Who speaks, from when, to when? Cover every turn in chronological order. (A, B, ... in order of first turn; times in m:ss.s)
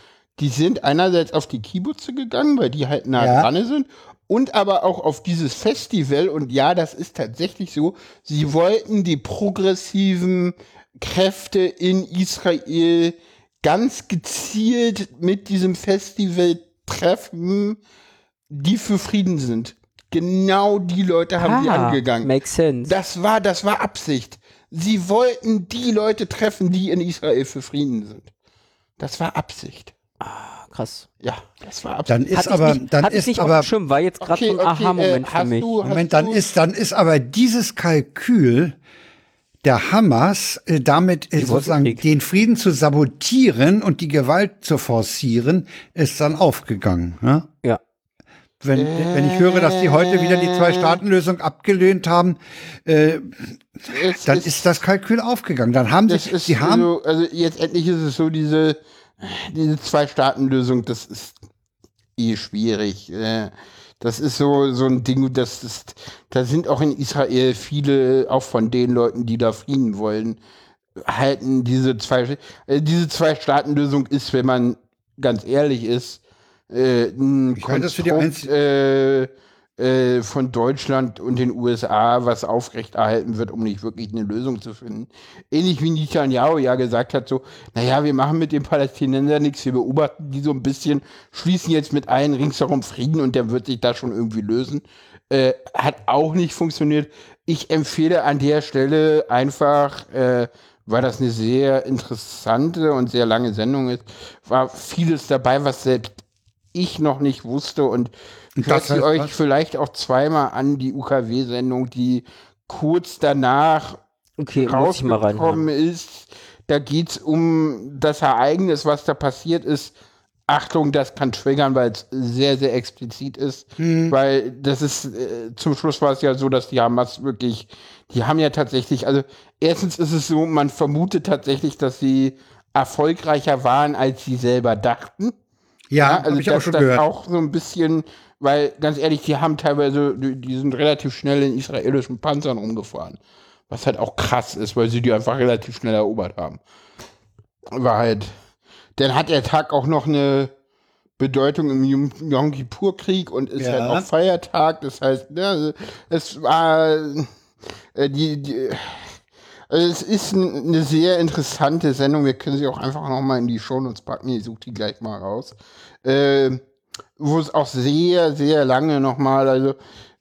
0:00.4-0:17.8 A
0:03.2-0:03.5 B
0:18.5-0:22.3 A
0:21.4-0:22.9 C
0:22.8-0:28.3 A
0:29.0-0:29.9 A
0:30.2-0:31.0 C
0:31.2-0:32.2 A
0:32.1-0:33.7 B
0:32.3-0:35.7 C
0:34.2-0:36.4 A
0:35.8-0:38.8 B
0:39.6-0:47.5 B
0:41.4-0:42.0 C
0:48.6-0:56.9 B
0:48.7-0:51.0 A
0:53.9-0:54.7 A
0:56.1-1:01.4 A
1:02.2-1:10.4 A
1:11.0-1:46.2 A
1:17.6-1:18.5 B
1:46.7-1:54.0 A
1:48.6-1:49.3 B
1:54.4-1:55.6 C
1:54.6-1:59.9 A
2:00.5-2:15.3 A
2:03.8-2:04.1 B
2:15.9-2:17.0 B
2:16.0-2:26.6 A
2:27.7-2:28.3 A
2:29.0-2:30.5 A
2:31.2-2:37.3 A
2:33.6-2:34.0 B
2:37.9-2:39.2 A
2:39.7-2:46.6 A
2:47.2-2:49.8 A